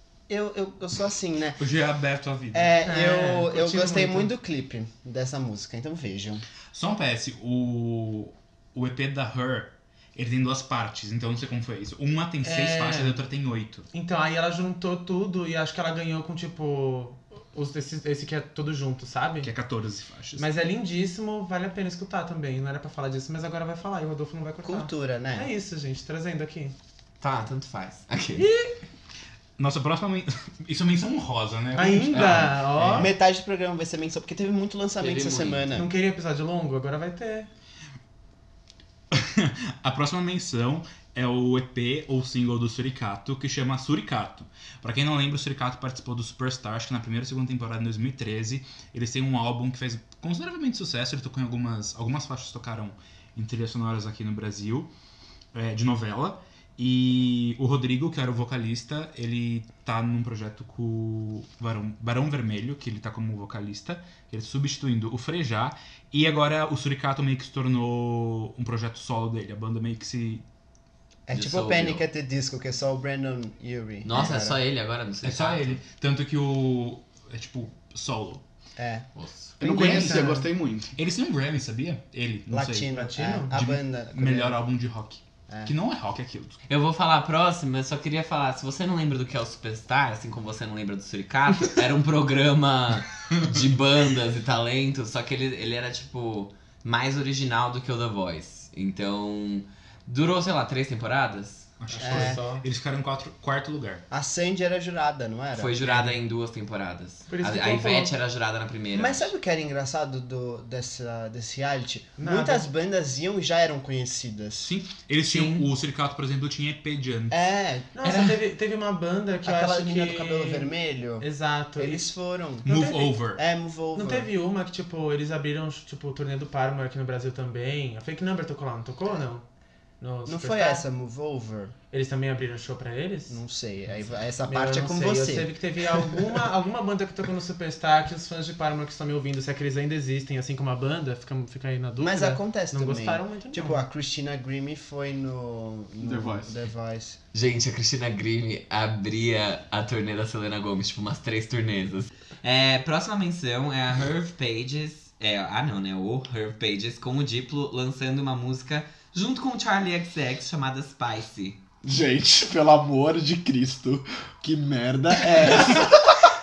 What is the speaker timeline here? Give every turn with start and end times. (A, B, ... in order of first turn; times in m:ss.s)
0:00.3-0:01.6 A
0:01.6-0:02.8 B
0:02.5-0:06.4 A
0:02.8-0:04.3 C
0:06.7-0:13.8 B
0:12.4-0:13.2 C
0:13.9-0:19.5 C
0:19.4-0:20.4 B
0:20.4-0:26.7 C
0:24.6-0:25.5 A
0:27.2-0:28.5 D
0:28.4-0:28.7 C
0:29.6-0:33.1 B
0:31.7-0:33.1 C
0:32.9-0:35.9 A
0:35.0-0:35.6 D
0:35.7-0:37.5 C
0:39.1-0:54.9 B
0:55.5-1:10.4 B
1:11.3-1:14.6 A
1:11.3-1:12.0 D
1:14.0-1:15.8 D
1:15.2-1:18.4 B
1:18.8-1:19.1 A
1:19.2-1:19.6 D
1:19.6-1:20.2 A
1:19.6-1:20.9 E
1:19.6-1:20.5 C
1:20.9-1:22.9 B
1:22.5-1:24.6 A
1:22.9-1:23.5 C
1:23.5-1:26.6 B
1:26.7-1:41.7 D
1:41.8-1:44.0 B
1:41.9-1:42.6 C
1:42.0-1:42.4 A
1:44.1-1:45.8 A
1:45.5-1:49.3 D
1:47.3-1:48.1 C
1:48.9-1:54.7 A
1:52.2-1:52.7 C
1:54.6-1:57.4 B
1:55.3-1:55.6 C
1:57.3-1:57.9 A
1:57.9-2:02.1 C
1:58.0-1:58.4 D
1:59.4-2:02.7 A
2:02.6-2:03.4 B
2:02.6-2:03.1 C
2:03.3-2:04.3 A
2:03.9-2:09.4 C
2:10.0-2:10.8 C
2:10.2-2:11.7 A
2:11.9-2:13.4 C
2:13.3-2:15.5 A
2:14.4-2:23.8 C
2:22.0-2:27.2 A
2:26.0-2:26.5 E
2:27.3-2:41.6 D
2:41.8-2:46.3 E